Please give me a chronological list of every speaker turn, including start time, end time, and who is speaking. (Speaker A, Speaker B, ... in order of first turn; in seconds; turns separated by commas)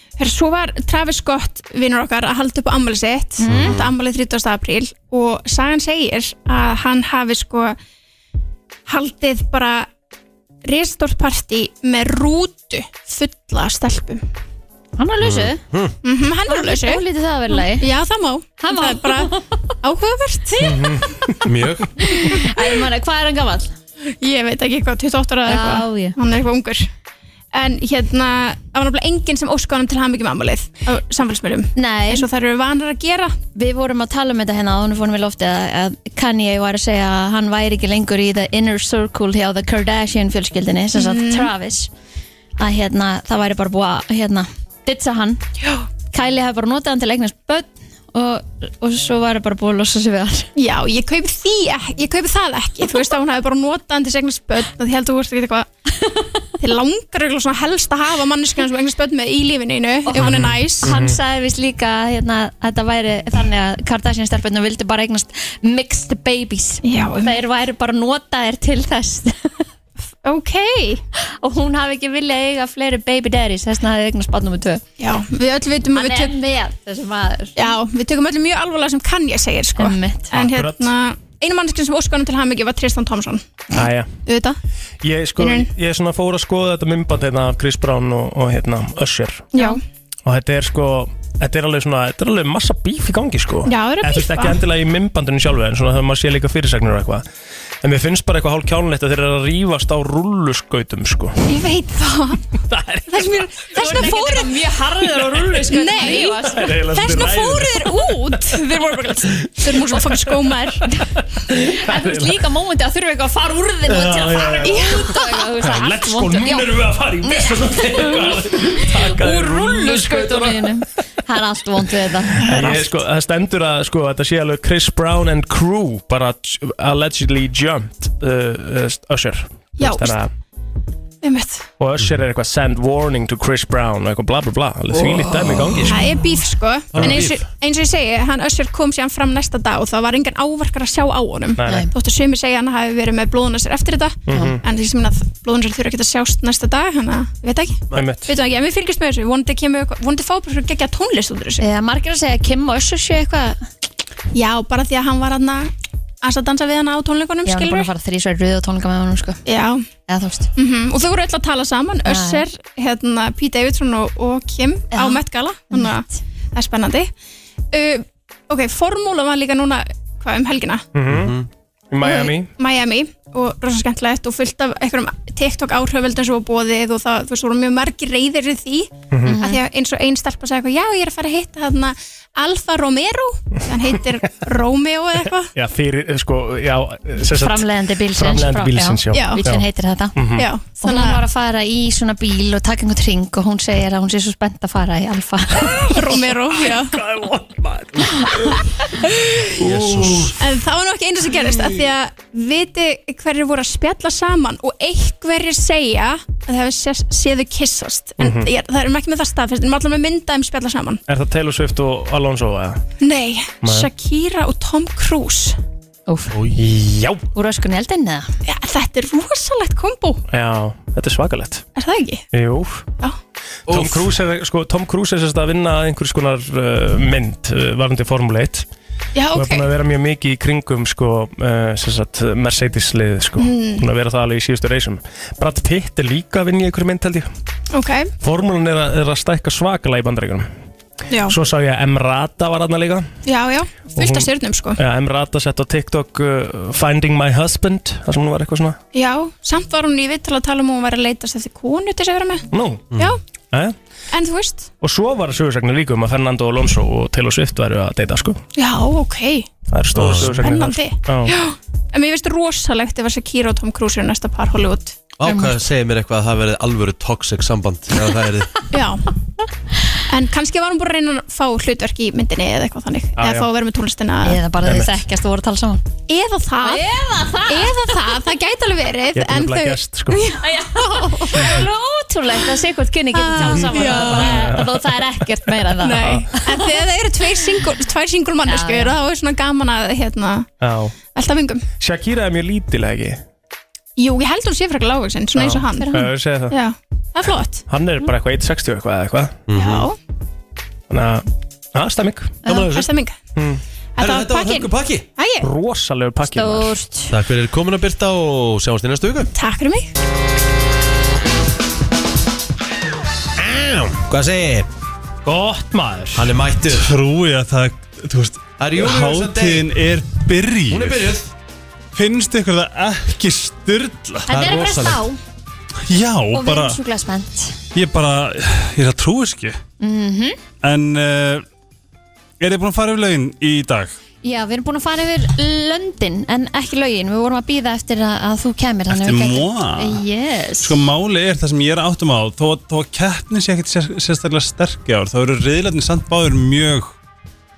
Speaker A: 0.2-7.8, Speaker B: 3.4-3.8, Speaker C: 3.5-3.9, Speaker A: 8.9-9.9, Speaker A: 10.6-14.2, Speaker B: 15.0-15.6, Speaker C: 15.2-15.9, Speaker A: 16.0-21.0, Speaker B: 16.5-17.9, Speaker B: 18.6-19.6, Speaker D: 20.6-21.4, Speaker C: 21.4-21.9, Speaker B: 22.0-23.7, Speaker A: 24.2-26.9, Speaker B: 25.4-26.1, Speaker A: 27.5-33.3, Speaker B: 31.8-32.3, Speaker B: 33.5-41.9, Speaker A: 40.9-41.5, Speaker B: 42.6-45.4, Speaker B: 46.1-50.5, Speaker A: 50.5-55.7, Speaker A: 56.6-60.9, Speaker B: 60.0-69.6, Speaker D: 60.2-61.2, Speaker A: 66.8-67.4, Speaker A: 70.2-71.0, Speaker B: 71.4-74.8, Speaker A: 75.0-76.3, Speaker B: 75.9-77.6, Speaker A: 77.5-84.6, Speaker B: 79.8-80.3, Speaker D: 80.3-80.9, Speaker D: 83.7-84.1, Speaker D: 85.0-89.5, Speaker A: 85.4-85.7, Speaker A: 89.5-89.8, Speaker D: 90.2-97.2, Speaker A: 93.7-94.6, Speaker D: 97.8-101.4, Speaker A: 101.5-102.5, Speaker D: 102.7-104.1, Speaker A: 103.1-104.6, Speaker B: 103.7-106.8, Speaker D: 105.1-105.6, Speaker A: 105.7-110.8, Speaker D: 106.4-110.5, Speaker D: 111.5-112.4, Speaker B: 111.6-116.7, Speaker D: 113.9-120.7, Speaker A: 114.7-115.1, Speaker B: 117.2-122.9, Speaker A: 119.3-119.9, Speaker D: 122.4-130.3, Speaker A: 122.5-122.8, Speaker A: 129.8-130.2, Speaker A: 131.2-131.7, Speaker D: 131.8-136.2, Speaker A: 135.9-151.6, Speaker C: 136.9-137.4, Speaker D: 141.6-141.9, Speaker B: 141.6-141.9, Speaker D: 144.3-144.6, Speaker D: 147.9-148.3, Speaker B: 151.6-153.6, Speaker A: 154.3-155.7, Speaker A: 156.2-157.9, Speaker B: 157.4-159.4, Speaker A: 159.4-159.8, Speaker B: 160.1-160.5, Speaker A: 160.6-167.1, Speaker B: 162.0-162.4, Speaker B: 164.9-166.2, Speaker A: 167.7-170.8, Speaker D: 170.9-171.3, Speaker C: 171.1-171.5, Speaker D: 171.9-172.5, Speaker A: 172.0-185.5, Speaker D: 179.1-179.4, Speaker B: 179.2-179.6, Speaker D: 185.5-190.5, Speaker B: 187.3-196.1, Speaker A: 189.1-189.4, Speaker A: 190.3-191.2, Speaker A: 195.8-197.0, Speaker D: 196.6-198.5, Speaker A: 198.8-199.4, Speaker C: 199.6-200.4, Speaker D: 199.6-200.3, Speaker A: 200.4-211.0, Speaker D: 208.2-208.5, Speaker D: 211.1-212.8, Speaker A: 213.0-215.6, Speaker D: 213.6-213.9, Speaker B: 216.1-216.3, Speaker D: 216.4-217.2, Speaker B: 217.3-218.3, Speaker A: 218.4-220.2, Speaker D: 220.3-221.6, Speaker A: 221.8-222.2, Speaker D: 222.3-222.8, Speaker C: 223.7-224.1, Speaker D: 223.7-228.7, Speaker A: 229.1-229.7, Speaker D: 229.3-237.3, Speaker A: 233.4-233.8, Speaker A: 237.7-238.1, Speaker D: 238.2-240.5, Speaker A: 241.1-241.3, Speaker D: 241.3-243.1, Speaker A: 243.2-244.8, Speaker D: 243.9-248.8, Speaker A: 248.9-253.2, Speaker D: 252.5-252.9, Speaker C: 252.9-253.2, Speaker A: 254.1-254.7, Speaker D: 254.8-258.4, Speaker A: 258.6-259.5, Speaker D: 259.7-261.4, Speaker C: 259.9-260.5, Speaker A: 260.2-265.1, Speaker C: 265.2-268.5, Speaker B: 265.2-265.6, Speaker A: 268.7-269.0, Speaker A: 270.1-274.4, Speaker D: 273.1-273.5, Speaker B: 274.2-275.8, Speaker D: 274.6-274.9, Speaker A: 276.1-276.9, Speaker B: 276.6-278.1, Speaker A: 277.5-281.7, Speaker D: 279.1-280.2, Speaker B: 280.4-286.7, Speaker A: 283.1-284.4, Speaker D: 283.4-285.2, Speaker A: 285.8-290.5, Speaker B: 288.4-288.9, Speaker D: 290.6-290.9, Speaker A: 291.1-291.6, Speaker D: 291.8-293.2, Speaker A: 293.9-297.6, Speaker D: 295.3-296.6, Speaker B: 295.8-296.1, Speaker D: 297.7-299.4, Speaker C: 299.5-299.9, Speaker A: 299.5-300.0, Speaker D: 300.9-302.4, Speaker B: 302.4-302.7, Speaker C: 302.4-302.9, Speaker A: 302.7-303.3, Speaker D: 303.3-303.6, Speaker A: 304.0-305.5, Speaker C: 304.0-305.1, Speaker D: 305.4-306.7, Speaker B: 306.3-307.1, Speaker C: 307.1-309.3, Speaker A: 309.3-309.9, Speaker C: 313.4-314.7, Speaker D: 315.2-316.3, Speaker C: 316.1-316.9, Speaker E: 316.8-321.1, Speaker C: 318.6-319.7, Speaker C: 320.7-321.3, Speaker E: 321.9-324.4, Speaker B: 324.3-325.2, Speaker C: 324.3-325.0, Speaker E: 325.9-326.8, Speaker B: 326.3-327.6, Speaker E: 327.7-329.6, Speaker B: 329.8-330.4, Speaker E: 330.6-331.4, Speaker E: 332.4-333.9, Speaker B: 334.2-340.8, Speaker E: 338.9-340.0, Speaker E: 340.6-346.9